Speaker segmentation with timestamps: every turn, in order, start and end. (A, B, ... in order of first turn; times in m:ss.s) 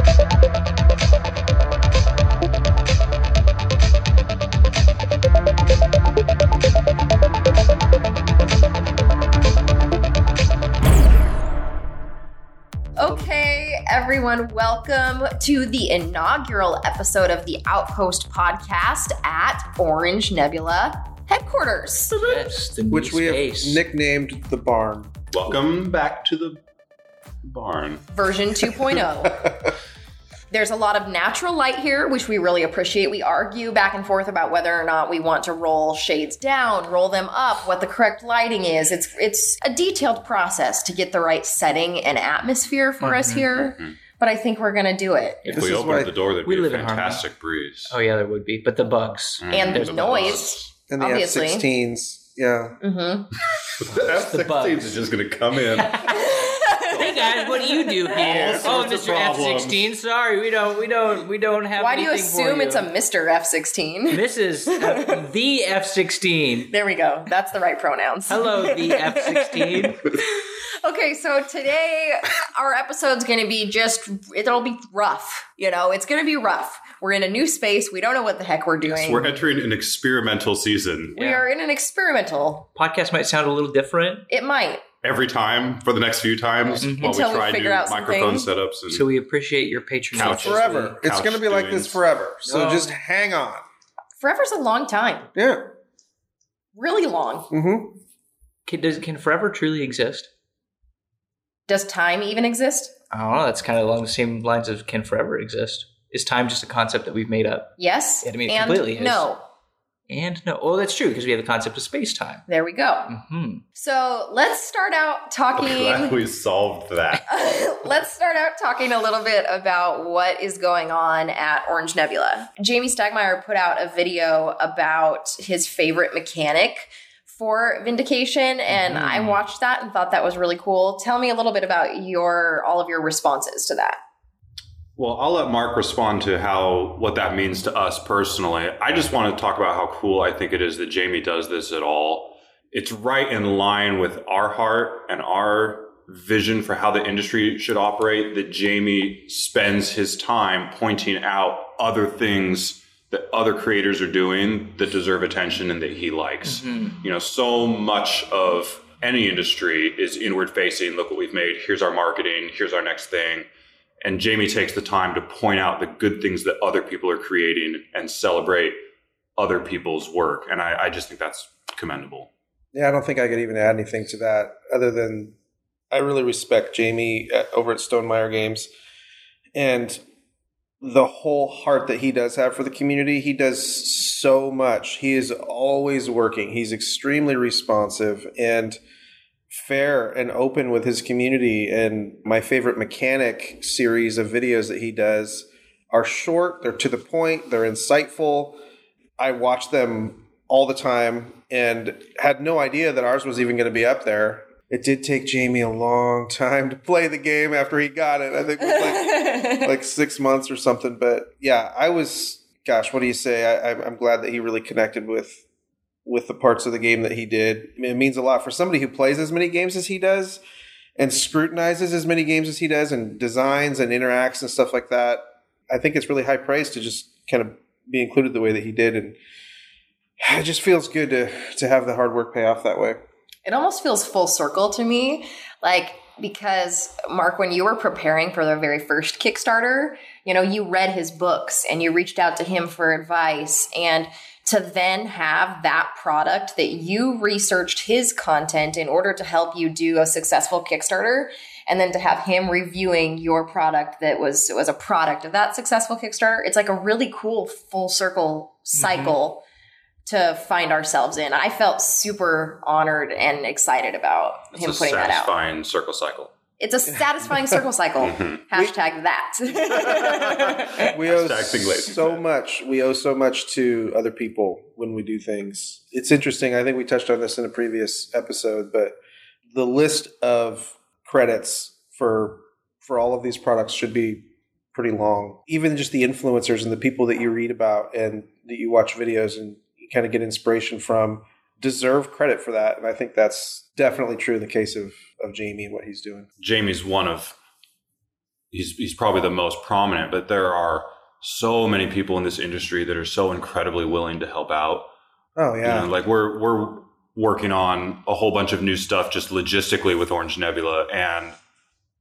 0:13.0-0:22.2 A
0:22.1-0:23.8 B
0:22.9-0:25.2 C
0:25.3-0:26.6 D
0:27.4-0:28.0 D
0:28.1-0:29.5 A
0:30.5-0:45.4 A
0:43.0-0:43.5 B
0:43.6-0:44.0 D
0:45.4-0:45.9 B
0:45.5-0:48.0 D
0:45.5-0:46.1 C
0:46.4-0:47.2 B
0:47.9-0:50.4 B
0:49.4-0:50.6 D
0:49.5-0:51.6 A
0:50.9-0:52.8 C
0:52.8-0:53.3 A
0:53.8-0:56.1 D
0:54.0-0:55.0 B
0:55.6-1:02.9 B
0:56.1-0:58.6 A
0:58.2-0:59.8 D
0:58.2-0:58.7 C
1:01.8-1:05.2 A
1:04.1-1:06.7 B
1:06.7-1:19.3 A
1:08.3-1:10.0 B
1:18.8-1:21.2 D
1:21.2-1:22.7 A
1:21.2-1:21.4 B
1:22.8-1:24.3 B
1:24.3-1:24.8 A
1:25.0-1:29.1 D
1:26.8-1:28.5 A
1:26.8-1:27.2 B
1:28.9-1:30.8 B
1:30.1-1:32.0 D
1:30.2-1:33.6 C
1:32.5-1:32.9 B
1:34.2-1:35.3 A
1:35.4-1:35.6 C
1:36.8-1:37.5 A
1:37.5-1:38.0 C
1:38.7-1:40.3 B
1:41.7-1:42.9 A
1:43.1-1:49.3 B
1:47.8-1:49.4 A
1:50.1-1:52.5 B
1:52.5-1:53.1 A
1:53.1-1:53.6 B
1:53.8-1:56.2 A
1:55.6-1:57.3 D
1:57.3-2:14.0 A
2:08.7-2:09.4 B
2:15.0-2:43.5 D
2:36.4-2:37.0 B
2:44.0-2:48.8 D
2:49.4-2:52.3 D
2:52.7-2:55.4 C
2:55.9-2:58.7 C
2:59.5-3:00.0 C
3:00.8-3:08.8 C
3:09.5-3:18.6 C
3:19.2-3:35.4 C
3:28.7-3:29.7 A
3:36.1-3:40.4 C
3:41.0-3:49.2 C
3:50.2-3:53.0 C
3:53.5-4:19.4 A
4:18.8-4:19.2 B
4:20.1-4:25.3 A
4:24.5-4:26.3 D
4:26.6-4:30.9 A
4:28.0-4:28.4 D
4:29.8-4:32.2 D
4:30.3-4:39.0 C
4:39.5-4:56.3 C
4:56.4-4:57.4 D
4:58.5-5:04.9 D
5:05.4-5:05.9 C
5:05.6-5:11.4 D